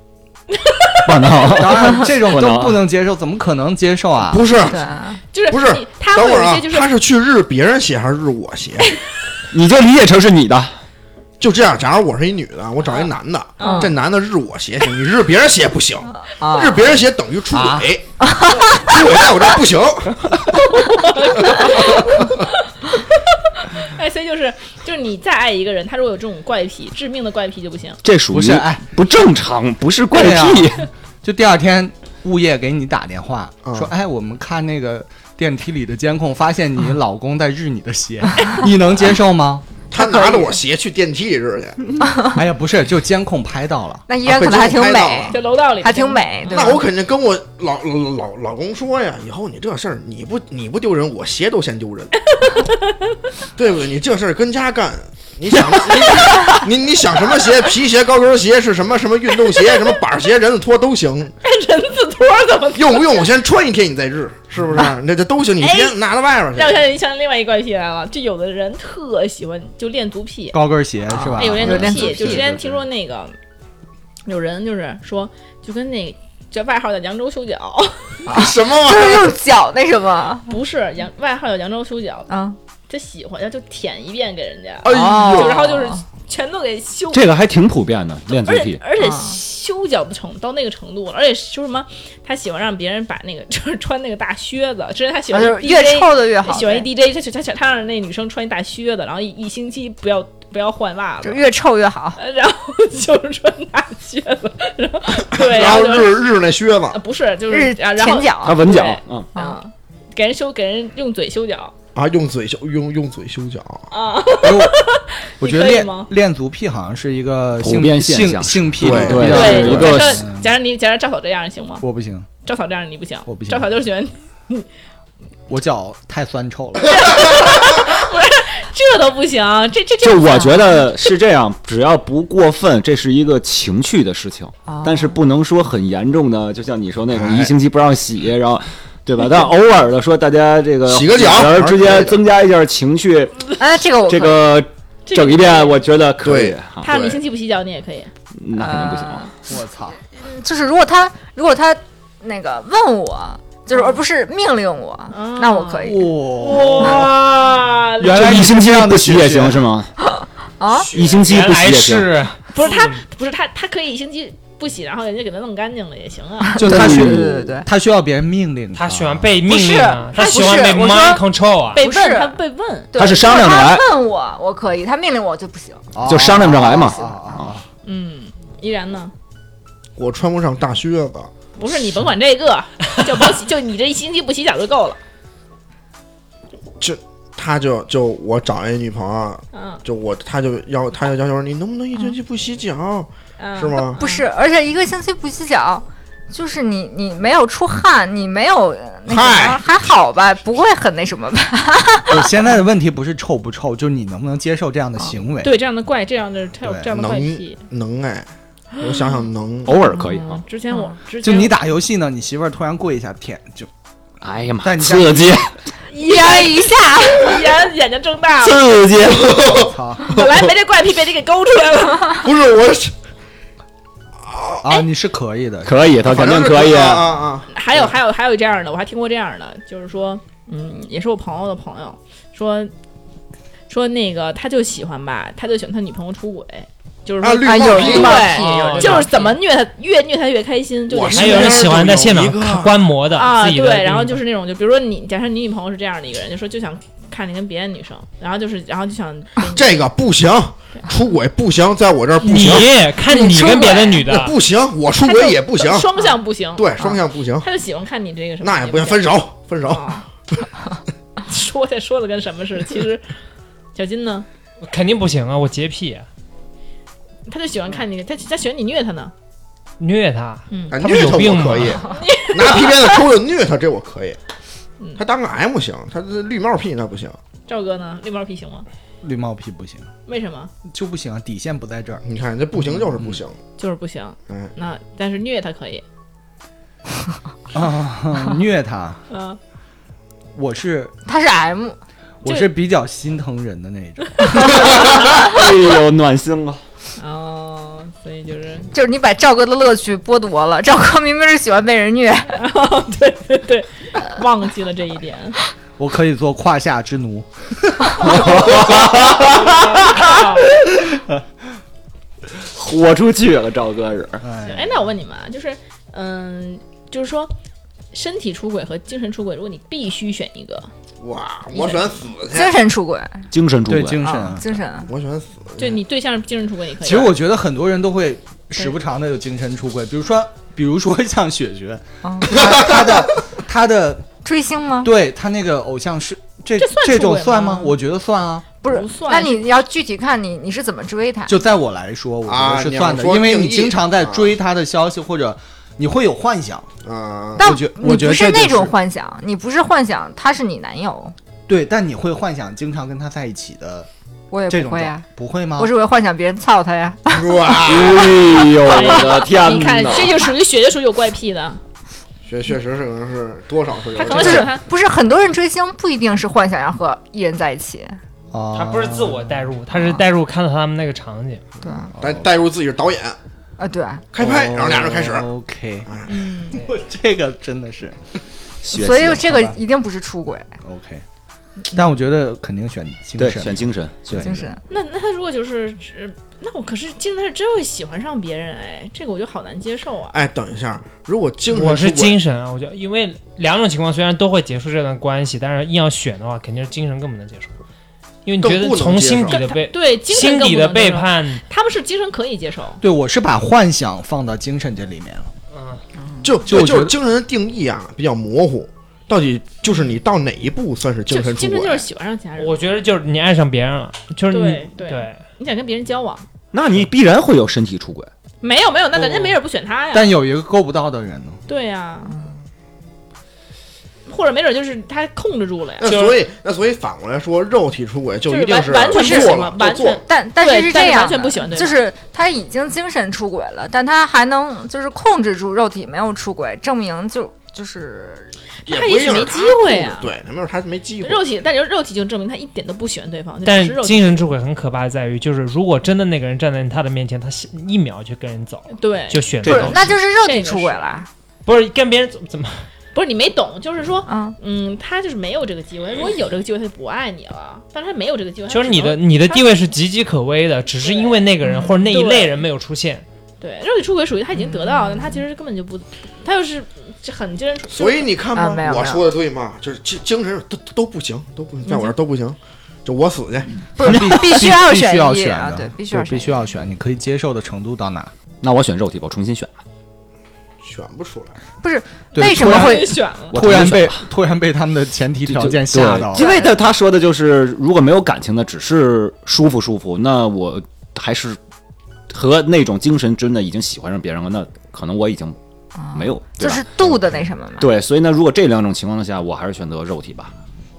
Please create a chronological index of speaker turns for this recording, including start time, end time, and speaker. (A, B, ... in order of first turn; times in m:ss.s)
0:00.5-0:01.4 A
0:01.0-0:02.8 B
0:01.4-0:04.5 C
0:04.3-0:04.8 D
0:04.6-0:05.2 E
0:05.3-0:06.9 A
0:05.5-0:08.9 D
0:09.5-0:10.7 B
0:11.4-0:18.0 D
0:13.6-0:13.9 A
0:13.6-0:14.0 E
0:16.2-0:16.9 E
0:17.5-0:17.9 C
0:18.2-0:18.9 E
0:18.6-0:20.5 D
0:20.5-0:28.0 A
0:21.4-0:22.4 D
0:28.0-0:30.9 B
0:28.3-0:28.8 C
0:30.1-0:39.7 C
0:33.6-0:33.9 D
0:39.9-0:42.0 D
0:40.0-0:40.6 E
0:42.0-0:42.4 E
0:42.3-0:44.1 C
0:44.1-0:46.8 E
0:44.2-0:45.4 D
0:45.3-0:46.7 A
0:46.5-0:52.2 D
0:52.4-0:53.2 A
0:53.6-1:01.3 D
1:01.4-1:03.3 A
1:02.8-1:06.8 D
1:05.6-1:06.0 A
1:06.5-1:10.6 A
1:10.5-1:12.8 C
1:11.2-1:12.5 E
1:11.4-1:13.4 A
1:14.3-1:18.3 A
1:18.3-1:19.3 D
1:18.3-1:20.6 E
1:20.5-1:22.3 A
1:22.3-1:22.6 E
1:22.9-1:27.2 A
1:24.8-1:25.8 D
1:24.9-1:26.0 E
1:27.1-1:28.8 B
1:28.4-1:41.4 A
1:29.0-1:29.4 E
1:35.3-1:36.9 E
1:41.2-1:42.2 E
1:42.2-1:46.3 A
1:45.2-1:47.0 D
1:46.9-1:51.7 A
1:47.5-1:48.6 E
1:48.4-1:49.3 B
1:52.0-1:53.9 D
1:53.9-1:56.1 A
1:54.4-1:54.8 C
1:55.4-2:00.5 C
1:57.6-2:00.2 B
1:58.8-1:59.5 D
1:59.2-2:01.9 A
2:01.8-2:02.3 C
2:02.4-2:04.7 A
2:03.3-2:03.7 C
2:05.5-2:07.0 C
2:06.9-2:10.8 A
2:10.0-2:23.4 B
2:10.3-2:10.6 E
2:14.7-2:15.2 E
2:17.1-2:17.5 D
2:20.9-2:22.2 D
2:23.6-2:24.5 E
2:24.1-2:26.9 B
2:25.1-2:25.8 A
2:26.2-2:27.2 D
2:26.8-2:28.1 A
2:28.4-2:29.3 B
2:28.6-2:29.3 E
2:29.5-2:30.0 C
2:30.1-2:36.1 E
2:33.7-2:34.0 A
2:35.1-2:38.2 A
2:35.8-2:37.1 C
2:36.8-2:37.1 E
2:38.0-2:39.6 C
2:38.1-2:39.9 B
2:40.2-2:40.9 E
2:40.8-2:41.2 D
2:40.9-2:42.1 B
2:41.2-2:43.0 F
2:42.5-2:46.6 A
2:46.5-2:47.7 E
2:46.6-2:49.4 C
2:46.6-2:47.3 B
2:48.8-2:51.8 F
2:49.4-2:51.2 E
2:50.2-2:50.8 A
2:51.8-2:52.4 E
2:51.8-2:52.9 A
2:52.9-2:55.9 E
2:53.0-2:53.9 B
2:55.9-2:57.6 C
2:56.1-2:57.5 B
2:57.8-2:59.1 A
3:00.0-3:01.3 D
3:01.6-3:05.0 A
3:06.8-3:14.0 D
3:09.5-3:09.8 A
3:13.4-3:14.2 A
3:14.0-3:22.3 E
3:19.1-3:19.6 D
3:22.1-3:25.6 C
3:25.4-3:27.6 A
3:26.6-3:26.9 C
3:26.9-3:29.7 D
3:29.7-3:30.4 B
3:30.0-3:30.9 E
3:30.3-3:31.6 A
3:31.2-3:33.7 C
3:34.2-3:35.5 B
3:34.6-3:35.5 C
3:35.9-3:38.8 A
3:36.0-3:37.5 E
3:38.4-3:39.5 B
3:39.0-3:40.4 D
3:39.6-3:40.2 C
3:40.1-3:42.2 A
3:42.2-3:42.9 D
3:44.2-3:44.6 D
3:44.6-3:45.8 C
3:45.6-3:47.2 B
3:46.0-3:47.9 D
3:47.5-3:52.7 A
3:53.7-4:01.8 A
3:57.2-3:58.4 D
3:57.4-3:59.3 E
3:58.3-3:59.1 F
4:00.9-4:02.8 D
4:01.1-4:04.2 F
4:03.1-4:09.9 A
4:09.5-4:12.7 D
4:12.2-4:14.4 F
4:13.1-4:14.0 E
4:14.1-4:16.0 D
4:15.0-4:20.1 A
4:16.6-4:17.5 D
4:18.4-4:20.5 D
4:21.2-4:23.1 A
4:23.8-4:24.3 A
4:24.6-4:26.1 F
4:27.3-4:29.1 A
4:29.8-4:31.8 F
4:30.5-4:30.8 A
4:30.7-4:34.2 D
4:31.8-4:33.0 A
4:35.0-4:37.2 D
4:37.5-4:38.7 A
4:39.0-4:39.9 C
4:40.1-4:40.5 A
4:40.7-4:42.0 C
4:42.0-4:43.4 D
4:42.6-4:43.2 C
4:43.6-4:45.8 A
4:47.5-4:49.0 C
4:49.1-4:49.4 A
4:50.4-4:51.0 C
4:51.1-4:51.8 E
4:52.2-4:54.3 C
4:52.2-4:52.5 A
4:54.2-4:54.6 A
4:54.5-4:56.6 B
4:57.0-4:58.7 A
4:58.7-5:02.4 E
5:02.4-5:05.4 A
5:05.8-5:08.0 C
5:08.0-5:09.6 B
5:08.3-5:10.5 A
5:12.5-5:14.2 B
5:14.2-5:14.8 C
5:14.4-5:17.3 A
5:17.9-5:20.7 A
5:21.0-5:22.5 D
5:21.5-5:22.1 A
5:22.3-5:23.3 E
5:23.3-5:24.0 B
5:23.7-5:24.5 C
5:24.0-5:24.9 E
5:24.8-5:25.8 D
5:25.6-5:27.2 A
5:26.8-5:34.1 C
5:32.0-5:32.4 E
5:32.3-5:32.8 D
5:34.2-5:34.9 E
5:34.8-5:38.5 C
5:36.6-5:37.8 A
5:38.6-5:41.4 E
5:38.6-5:39.5 A
5:41.3-5:46.7 C
5:42.3-5:44.4 D
5:46.8-5:47.5 D
5:47.4-5:51.2 E
5:47.4-5:48.7 C
5:51.5-5:53.9 C
5:54.3-5:55.1 E
5:54.5-5:55.7 C
5:55.6-5:58.1 E
5:57.1-5:58.1 D
5:57.7-6:00.2 B
5:58.6-6:01.6 A
6:02.3-6:04.5 D
6:04.0-6:04.6 A
6:04.1-6:08.0 E
6:08.3-6:09.5 C
6:08.5-6:11.4 F
6:09.7-6:10.0 E
6:11.6-6:11.9 E
6:12.0-6:12.2 C
6:12.0-6:13.2 D
6:13.6-6:14.1 E
6:14.1-6:15.3 D
6:14.2-6:15.9 C
6:16.1-6:16.6 A
6:16.5-6:18.0 C
6:18.6-6:19.4 B
6:18.7-6:20.5 E
6:19.2-6:19.6 C
6:20.6-6:21.0 C
6:21.7-6:24.5 C
6:23.2-6:24.4 B
6:24.2-6:24.6 E
6:24.7-6:30.2 A
6:30.1-6:32.2 D
6:31.5-6:37.5 F
6:38.2-6:41.4 F
6:38.4-6:39.4 D
6:39.3-6:42.8 A
6:42.8-6:45.3 C
6:45.5-6:45.8 F
6:46.2-6:51.8 D
6:46.5-6:47.0 C
6:51.1-6:52.6 A
6:52.4-6:55.2 F
6:54.3-6:56.3 A
6:56.5-6:58.1 B
6:58.4-7:00.1 A
6:59.9-7:01.4 C
7:01.5-7:02.2 A
7:04.1-7:05.9 A
7:05.8-7:10.0 D
7:05.9-7:06.2 F
7:08.3-7:11.8 A
7:08.9-7:09.4 E
7:10.1-7:18.3 E
7:18.7-7:20.1 A
7:18.7-7:21.2 D
7:21.0-7:24.3 A
7:23.4-7:29.9 F
7:28.7-7:30.9 A
7:29.5-7:31.1 E
7:31.5-7:32.7 F
7:32.9-7:39.6 A
7:34.1-7:34.4 E
7:38.5-7:43.0 F
7:40.8-7:42.4 A
7:41.4-7:41.7 E
7:43.4-7:48.1 A
7:44.5-7:45.2 E
7:47.7-7:53.6 D
7:48.3-7:49.1 E
7:51.7-7:51.9 A
7:53.8-7:56.5 E
7:53.8-7:58.1 C
7:58.4-7:59.6 B
8:00.6-8:01.4 D
8:01.6-8:03.0 E
8:02.1-8:06.3 C
8:02.4-8:03.4 A
8:03.3-8:04.1 B
8:05.3-8:11.4 B
8:06.2-8:06.5 E
8:12.1-8:15.4 B
8:15.8-8:17.7 E
8:15.9-8:17.0 B
8:17.6-8:20.3 B